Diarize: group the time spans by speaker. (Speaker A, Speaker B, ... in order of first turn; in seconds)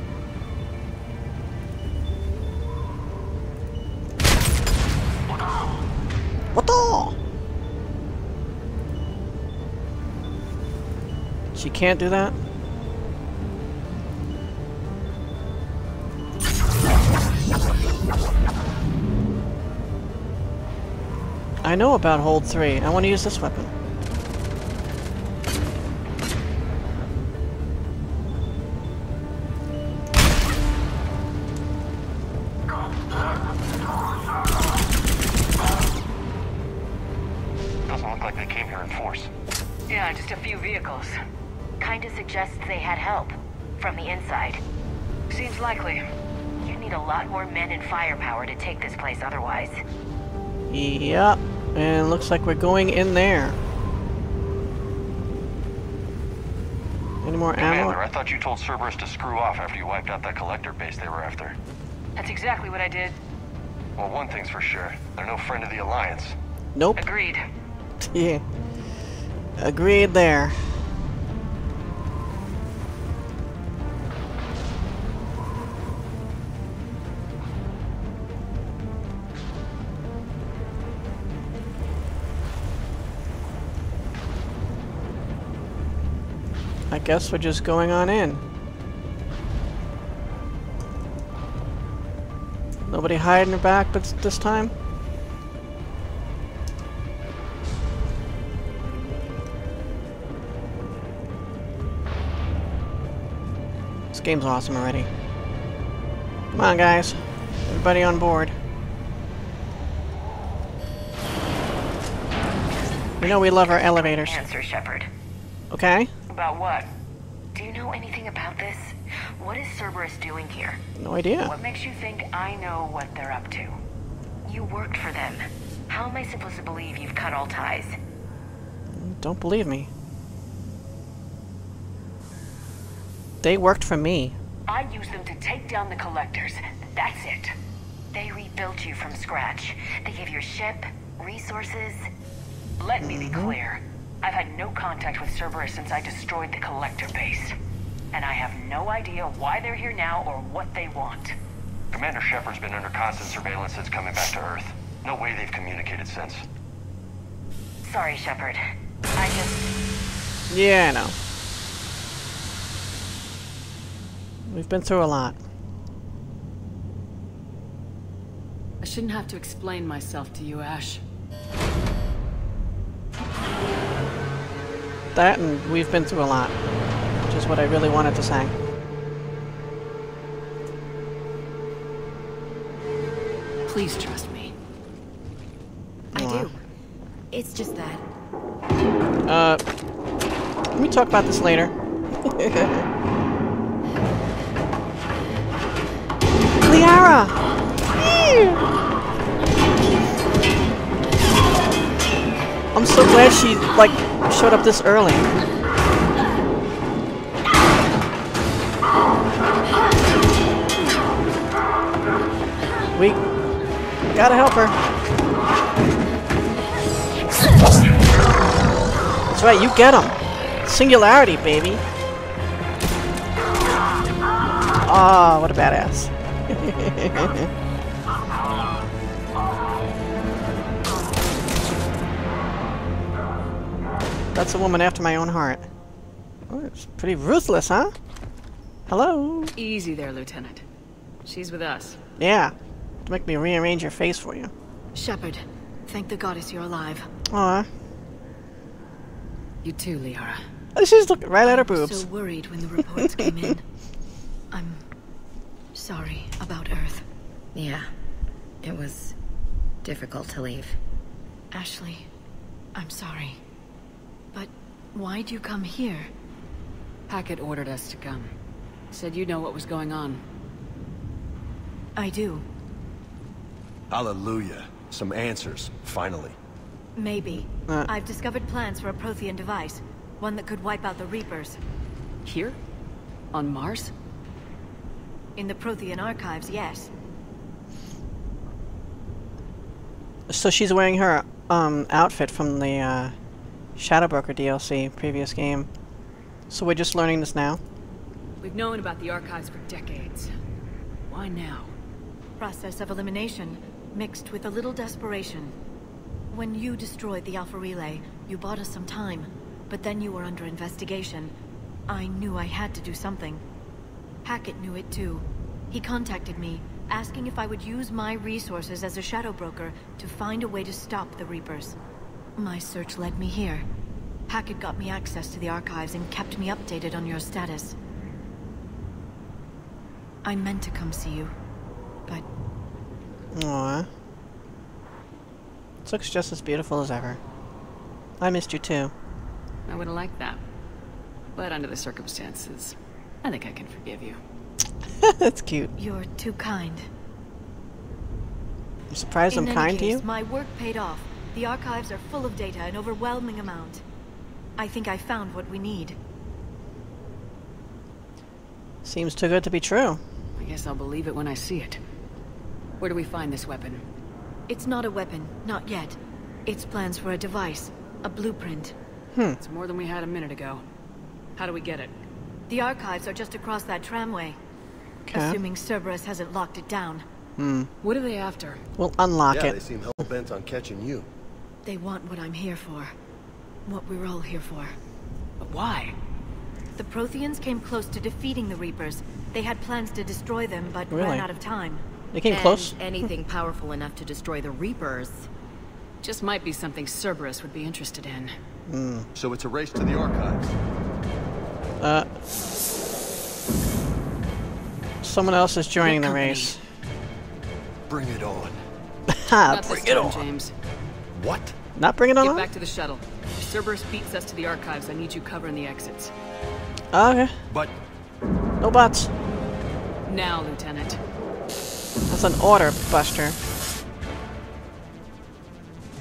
Speaker A: 6.5-7.2, 11.5-12.4, 21.6-23.7, 50.7-53.6, 57.2-58.0, 66.8-67.0, 68.0-68.4, 69.6-70.6, 86.9-88.4, 92.9-94.7, 104.1-105.1, 106.5-108.5, 113.2-114.4, 115.7-116.1, 121.0-121.5, 128.9-129.9, 133.4-134.4, 143.0-143.6, 160.5-161.2, 164.5-165.4, 175.1-176.6, 177.3-178.5, 186.1-186.5, 189.3-189.6, 190.7-192.9, 196.6-197.4, 197.9-198.6, 202.7-205.3, 212.9-213.2, 214.1-214.8, 219.3-221.8, 224.8-227.5, 234.3-235.7, 236.5-237.9, 238.9-239.5, 242.2-242.5, 243.1-244.5, 247.3-247.7, 250.8-252.1, 253.0-253.5, 290.3-293.1, 293.8-295.7, 296.5-297.6, 333.3-333.9, 335.9-337.2, 338.2-338.9, 345.0-345.7, 348.9-350.0, 358.8-360.0, 369.1-369.4, 375.1-375.4, 377.4-377.7, 378.8-379.6, 390.9-391.3, 392.1-393.1, 398.7-399.1, 401.8-402.7, 405.0-406.6, 409.1-410.0, 411.8-412.5, 416.9-417.4, 418.6-419.1, 422.1-423.4
Speaker B: 37.9-39.3, 57.6-61.6, 64.0-66.3, 151.9-156.4
Speaker C: 39.9-41.1, 45.3-46.0, 62.2-63.2, 67.0-67.4, 121.5-123.7, 134.7-137.6, 142.8-147.6, 148.1-151.3, 168.8-171.0, 183.7-184.5, 239.6-240.6, 241.2-242.0, 249.6-250.4, 267.1-268.3, 268.9-270.2, 282.2-282.6, 283.3-283.9, 298.4-300.3, 301.1-301.7, 339.7-340.4, 341.4-344.2, 360.4-361.8, 362.8-363.8, 369.4-370.6, 371.4-371.9, 377.8-378.6, 385.4-385.9, 396.0-398.3, 405.8-406.6, 409.5-410.5, 412.2-416.1, 420.1-421.0
Speaker D: 41.8-44.6, 46.6-49.8, 113.2-115.1, 116.3-116.9, 117.5-120.8, 121.6-123.3, 124.5-128.0, 138.1-142.1, 157.8-158.6, 159.2-159.7, 257.6-257.9, 258.6-259.1, 259.8-260.8
Speaker E: 186.2-186.6, 187.3-188.0, 244.9-247.1, 251.4-253.6, 254.5-254.8, 255.7-257.1, 261.5-262.1, 262.8-263.4, 264.3-266.1, 272.0-272.4, 277.0-281.6, 285.4-286.9, 302.4-305.6, 306.3-311.3, 311.9-313.4, 314.2-321.8, 322.4-323.7, 324.3-327.8, 330.2-331.3, 345.8-346.9, 349.3-353.8, 354.6-356.0, 364.5-368.8, 372.5-374.4, 375.1-377.1, 381.7-382.9, 383.7-384.8, 386.8-391.8
Speaker F: 273.9-276.4, 379.3-381.1, 399.1-400.5, 407.9-408.6, 409.8-410.2, 411.1-411.6, 417.5-417.8
Speaker G: 392.3-395.3